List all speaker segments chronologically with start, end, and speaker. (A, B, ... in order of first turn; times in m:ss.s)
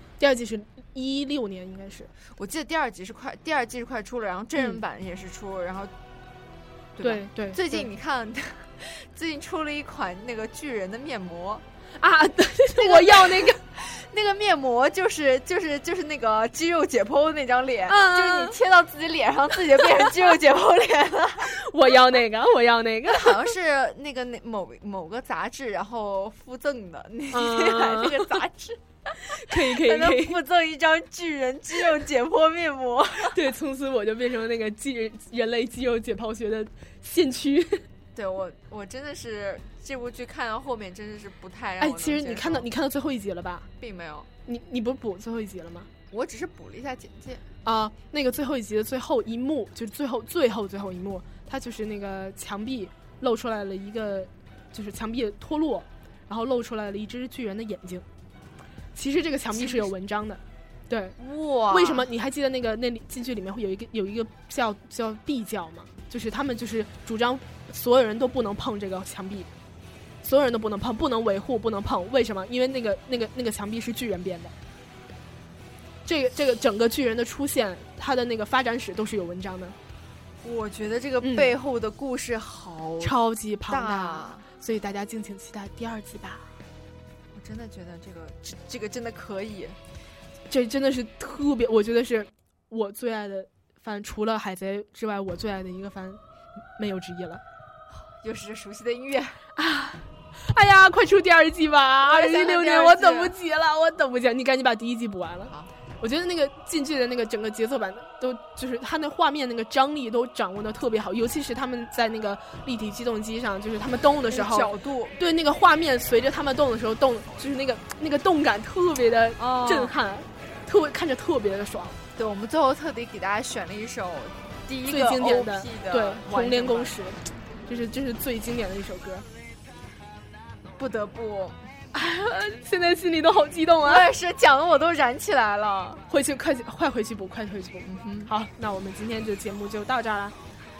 0:00.2-0:02.1 A
0:02.4-0:05.9 B
0:07.0-0:11.6 B
0:07.0-0:07.9 A
0:12.0-0:13.6 A
0:12.8-0:21.5 B
0:17.9-0:18.6 A
0:21.4-0:23.5 A
0:23.1-0:33.4 B
0:27.3-0:28.3 A
0:29.5-0:30.4 A
0:33.3-0:37.8 A
0:38.2-0:42.7 B
0:41.8-0:43.7 A
0:43.8-0:44.3 B
0:44.5-0:45.9 A
0:46.1-0:47.4 B
0:47.6-0:58.0 A
0:59.0-1:01.2 A
0:59.6-0:59.9 B
1:01.2-1:02.1 B
1:01.7-1:09.5 A
1:10.2-1:14.5 A
1:16.0-1:19.8 A
1:20.4-1:23.1 B
1:21.2-1:21.5 A
1:23.0-1:26.5 A
1:23.7-1:24.5 B
1:27.3-1:29.8 B
1:30.5-1:36.2 A
1:36.8-1:37.4 A
1:37.9-1:39.4 B
1:39.6-2:02.0 A
1:42.0-1:43.3 B
1:54.3-1:55.2 B
1:59.4-2:00.0 B
2:02.2-2:07.0 B
2:04.9-2:09.3 A
2:10.8-2:11.6 B
2:11.9-2:14.1 A
2:13.8-2:16.0 B
2:16.1-2:20.4 A
2:17.9-2:18.3 B